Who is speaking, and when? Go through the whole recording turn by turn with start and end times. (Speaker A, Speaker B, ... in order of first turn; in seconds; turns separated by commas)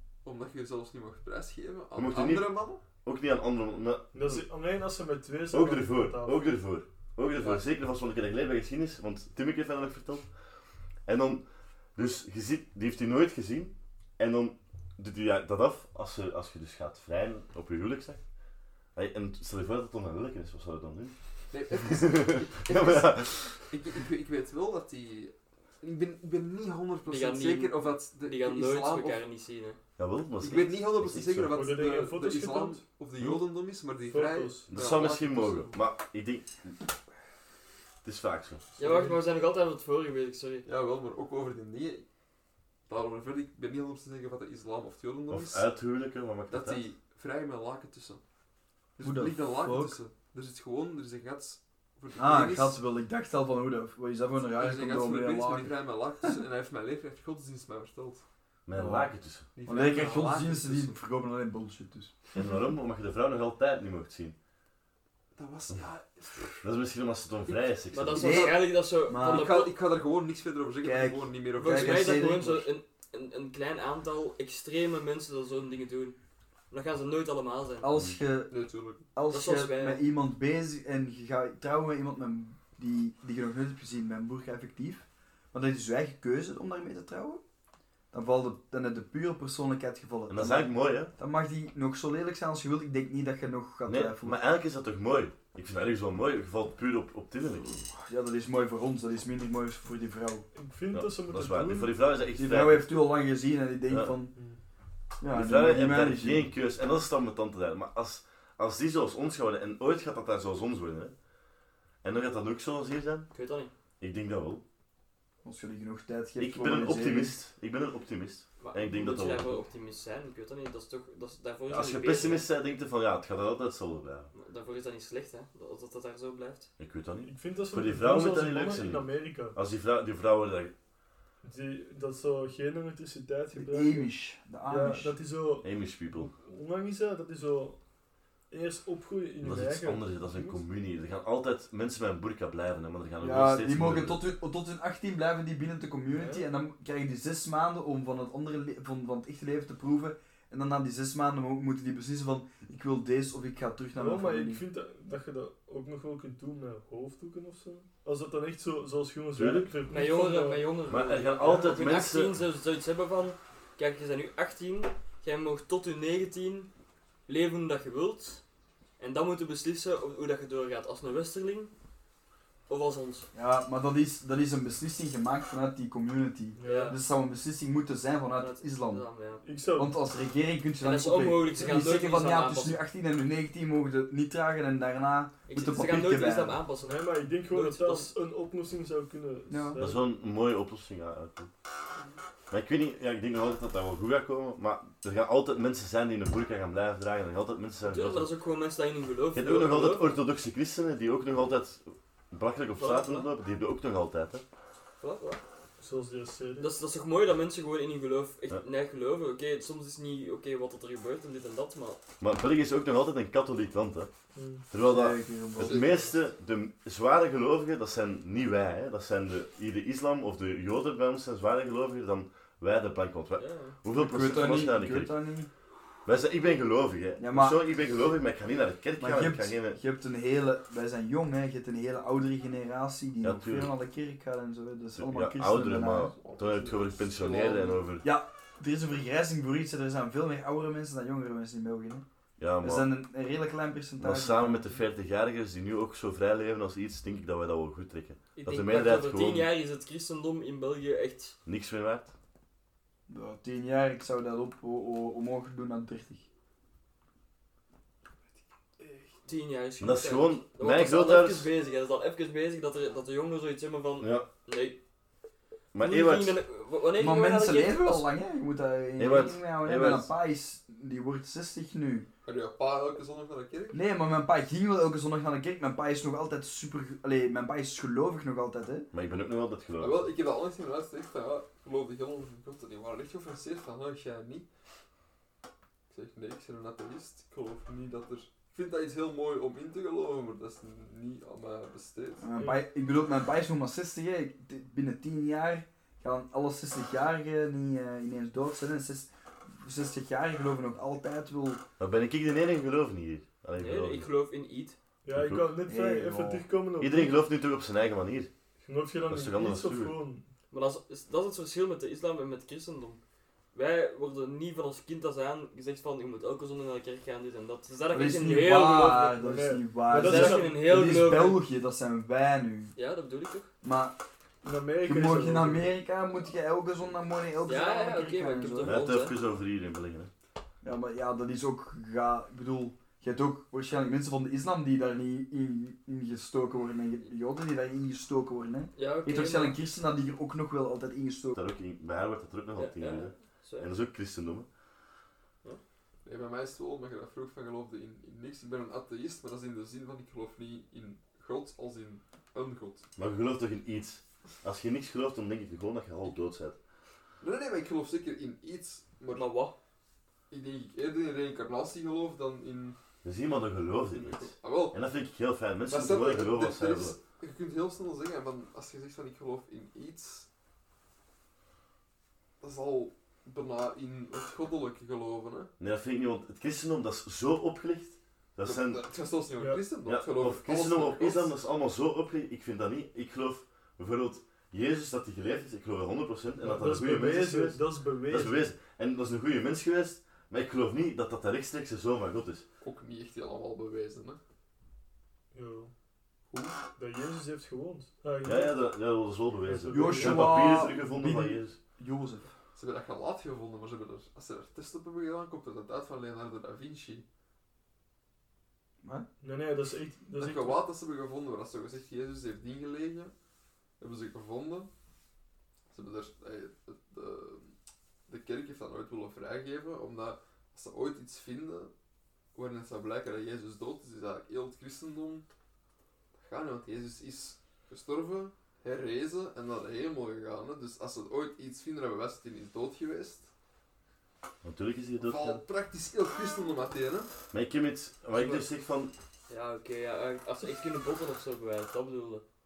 Speaker A: 0.2-2.8, Speaker B: 1.9-4.4, Speaker C: 4.1-6.4, Speaker B: 5.5-10.3, Speaker B: 11.1-11.4, Speaker B: 12.0-18.2, Speaker B: 18.9-21.1, Speaker A: 21.5-29.2, Speaker B: 21.7-23.6, Speaker D: 27.1-29.8, Speaker B: 30.0-31.6, Speaker A: 30.4-35.8, Speaker C: 31.5-32.9, Speaker B: 33.2-33.4, Speaker C: 34.0-34.7, Speaker B: 34.7-36.6, Speaker B: 38.0-38.6, Speaker D: 38.8-40.7, Speaker C: 38.8-39.1, Speaker A: 40.7-42.1, Speaker A: 42.9-45.7, Speaker B: 45.3-46.9, Speaker A: 46.5-48.2, Speaker A: 49.0-52.8, Speaker E: 49.0-50.0, Speaker E: 52.2-55.8, Speaker A: 54.5-58.2, Speaker B: 58.7-59.5, Speaker E: 58.7-59.1, Speaker A: 59.5-61.0, Speaker E: 59.6-62.2, Speaker B: 62.4-64.3, Speaker A: 65.4-66.7, Speaker B: 66.6-68.5, Speaker A: 67.5-68.5, Speaker D: 67.9-69.7, Speaker E: 68.2-69.5, Speaker A: 69.2-72.1, Speaker E: 70.8-72.7, Speaker D: 71.6-76.2, Speaker D: 76.7-77.9, Speaker E: 77.8-78.6, Speaker A: 78.5-79.0, Speaker E: 79.1-87.4, Speaker D: 79.3-80.0, Speaker E: 88.1-94.4, Speaker B: 90.3-91.1, Speaker B: 93.9-97.7, Speaker E: 97.9-100.5, Speaker C: 100.5-101.9, Speaker B: 100.9-102.9, Speaker E: 102.4-104.3, Speaker E: 105.2-106.5, Speaker B: 105.3-111.1, Speaker B: 112.0-113.3, Speaker D: 113.3-113.7, Speaker B: 114.0-114.6, Speaker E: 115.4-117.3, Speaker B: 116.4-119.6, Speaker D: 118.6-122.5, Speaker B: 121.7-124.3, Speaker D: 124.3-126.7, Speaker B: 126.8-130.7, Speaker C: 127.2-129.6, Speaker C: 131.4-134.1, Speaker E: 133.5-135.2, Speaker C: 134.7-137.8, Speaker B: 135.6-136.3, Speaker C: 138.5-140.6, Speaker B: 139.4-144.2, Speaker E: 143.2-154.7, Speaker C: 146.1-146.5, Speaker C: 154.0-160.7, Speaker B: 159.3-159.7, Speaker D: 159.9-166.7, Speaker B: 160.9-162.3, Speaker D: 167.3-168.4, Speaker D: 169.0-171.7, Speaker D: 172.7-173.3, Speaker E: 173.3-179.0, Speaker C: 176.6-177.0, Speaker D: 176.6-177.0, Speaker D: 178.4-179.4, Speaker C: 179.4-180.0, Speaker E: 179.8-186.6, Speaker D: 180.8-182.8, Speaker C: 181.6-181.8, Speaker D: 185.5-188.1, Speaker C: 186.8-190.1, Speaker E: 189.5-189.9, Speaker B: 189.8-191.5, Speaker B: 192.5-198.3, Speaker D: 197.9-200.2, Speaker B: 199.3-204.4, Speaker D: 202.8-203.3, Speaker D: 205.0-205.4, Speaker C: 205.8-206.7, Speaker D: 206.6-212.0, Speaker B: 212.2-214.1, Speaker C: 214.3-214.7, Speaker B: 214.7-225.1, Speaker E: 214.8-215.9, Speaker A: 215.6-216.2, Speaker D: 223.4-223.8, Speaker E: 223.9-225.5, Speaker B: 226.1-229.8, Speaker E: 227.2-227.6, Speaker E: 229.0-236.1, Speaker B: 233.2-233.7, Speaker B: 235.0-238.0, Speaker A: 236.1-237.8, Speaker E: 238.0-242.1, Speaker B: 242.4-242.9, Speaker E: 242.6-244.8, Speaker B: 244.0-249.5, Speaker D: 248.4-251.4, Speaker B: 251.5-252.1, Speaker E: 253.1-256.3, Speaker D: 259.2-264.8, Speaker B: 259.8-261.5, Speaker B: 264.0-264.3, Speaker B: 265.7-266.4, Speaker D: 265.8-268.1, Speaker E: 267.0-272.1, Speaker B: 269.0-270.1, Speaker A: 272.2-273.8, Speaker E: 273.7-278.9, Speaker B: 278.9-280.0, Speaker A: 279.8-284.5, Speaker A: 285.9-292.3, Speaker E: 292.2-301.6, Speaker B: 301.8-304.1, Speaker D: 303.6-304.8, Speaker C: 305.0-307.1, Speaker B: 305.1-305.6, Speaker E: 305.7-306.5, Speaker B: 306.8-308.3, Speaker C: 308.6-310.3, Speaker B: 309.1-310.0, Speaker D: 310.5-313.0, Speaker D: 313.5-319.2, Speaker E: 317.9-322.8, Speaker C: 319.2-320.6, Speaker D: 319.9-321.4, Speaker D: 322.8-323.5, Speaker E: 323.6-323.9, Speaker C: 324.4-325.8, Speaker E: 324.8-328.8, Speaker D: 327.5-329.2, Speaker B: 328.6-330.1, Speaker E: 330.6-341.4, Speaker D: 338.8-339.6, Speaker B: 341.4-344.5, Speaker D: 342.6-343.7, Speaker A: 346.1-352.9, Speaker B: 353.0-356.6, Speaker A: 357.2-359.3, Speaker D: 359.1-359.6, Speaker A: 360.3-362.8, Speaker B: 363.0-367.0, Speaker A: 363.9-364.8, Speaker A: 365.7-370.3, Speaker A: 372.4-375.5, Speaker B: 375.6-378.8, Speaker A: 378.4-381.3, Speaker B: 379.9-392.4, Speaker C: 386.4-388.5, Speaker A: 392.6-394.2, Speaker C: 395.3-395.7, Speaker A: 396.3-396.6, Speaker C: 396.8-398.6, Speaker B: 398.2-401.6, Speaker C: 399.4-400.6, Speaker E: 399.7-402.3, Speaker A: 402.6-407.1, Speaker C: 409.2-410.6, Speaker A: 410.1-413.1, Speaker A: 413.8-414.7, Speaker A: 415.7-417.5, Speaker A: 418.1-421.7, Speaker A: 422.3-425.3, Speaker A: 426.2-433.3, Speaker B: 434.4-435.4, Speaker A: 435.0-437.1, Speaker B: 437.3-438.9, Speaker D: 438.1-438.4, Speaker D: 439.3-442.2